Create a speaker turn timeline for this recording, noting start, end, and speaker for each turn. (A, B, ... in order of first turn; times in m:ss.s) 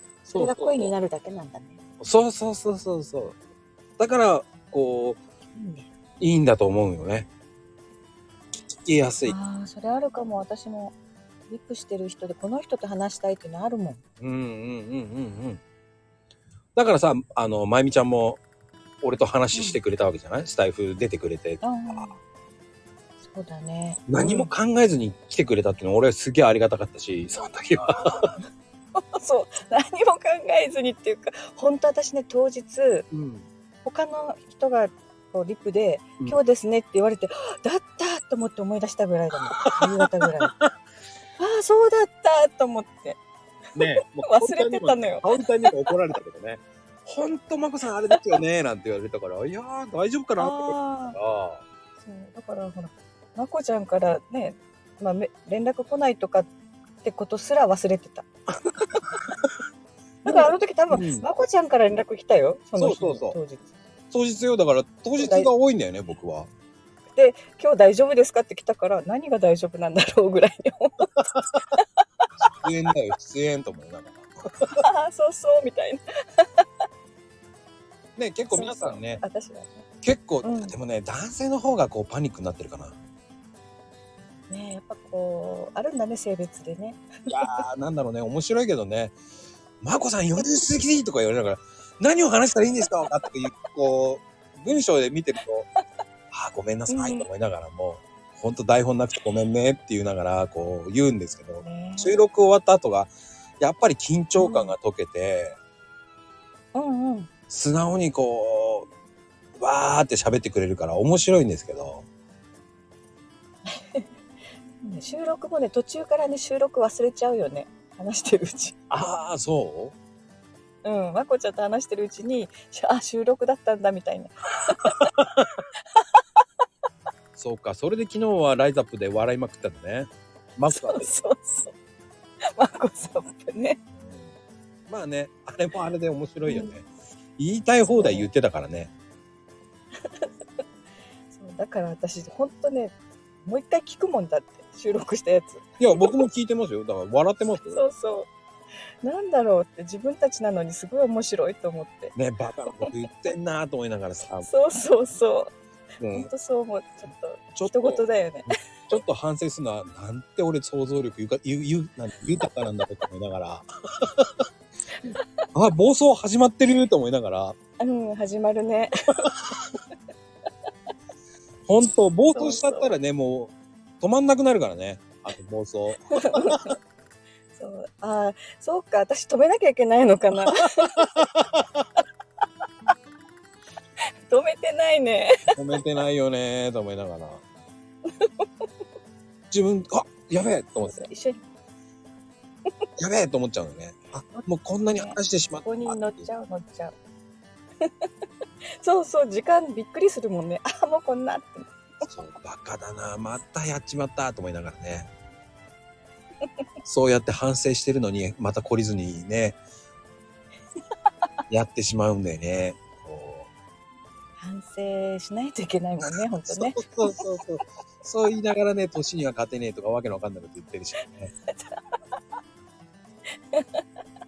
0:00.2-0:00.9 A
0:00.3-0:01.8 B
0:02.0-0:03.4 A
0:04.0-0:05.2 A
0:05.5-0:05.9 B
0:06.2-0:07.3 A
0:08.7-0:09.4 A
0:09.3-0:11.0 B
0:11.5-0:14.0 B
0:14.2-0:15.6 A
0:16.8-0:18.4 A
0:19.0-0:22.1 A
0:19.5-0:19.8 B
0:21.6-0:22.2 B
0:23.2-0:24.5 B
0:24.1-0:28.3 A
0:29.1-0:33.1 B
0:33.1-0:33.5 A
0:33.8-0:40.6 B
0:41.4-0:43.2 B
0:43.8-0:51.6 A
0:43.8-0:45.7 B
0:50.4-0:51.2 B
0:52.0-0:56.5 B
0:57.0-0:58.3 B
0:58.9-0:59.5 A
1:00.2-1:03.7 B
1:00.3-1:01.3 A
1:02.8-1:03.4 A
1:04.1-1:06.5 A
1:05.2-1:05.5 B
1:07.1-1:11.9 B
1:12.4-1:14.8 A
1:14.8-1:16.6 B
1:18.2-1:19.2 A
1:18.5-1:19.8 B
1:20.0-1:23.0 A
1:20.4-1:20.7 B
1:24.5-1:27.6 B
1:27.3-1:29.2 A
1:29.8-1:35.7 A
1:36.3-1:45.6 A
1:36.9-1:37.3 B
1:41.6-1:42.2 B
1:44.4-1:44.7 B
1:46.7-1:47.3 B
1:47.5-1:48.9 A
1:49.6-1:52.0 A
1:53.8-1:54.1 B
1:54.8-1:58.8 B
1:58.9-2:00.0 A
2:00.8-2:05.0 B
2:05.2-2:05.5 A
2:07.4-2:11.1 A
2:10.7-2:11.7 B
2:12.5-2:13.8 B
2:13.9-2:14.3 A
2:14.9-2:16.9 A
2:16.4-2:16.7 B
2:17.4-2:18.9 A
2:17.8-2:18.3 B
2:21.3-2:26.2 B
2:25.8-2:27.8 A
2:27.7-2:28.3 B
2:29.0-2:32.2 B
2:32.2-2:34.5 A
2:34.4-2:35.5 B
2:36.0-2:36.3 A
2:36.1-2:38.5 B
2:37.6-2:44.5 A
2:45.6-2:47.6 A
2:47.8-2:49.3 B
2:51.7-2:56.7 A
2:52.4-2:52.9 B
2:56.3-2:56.7 B
2:57.5-3:01.1 B
3:01.2-3:01.8 A
3:04.3-3:05.4 B
3:05.5-3:07.4 A
3:09.5-3:11.0 A
3:10.8-3:11.4 B
3:13.0-3:16.3 A
3:14.3-3:17.0 B
3:18.8-3:22.1 B
3:22.0-3:25.1 A
3:26.8-3:29.6 A
3:31.5-3:33.5 A
3:34.4-3:37.2 B
3:36.0-3:41.3 A
3:41.5-3:41.8 B
3:43.5-3:43.8 B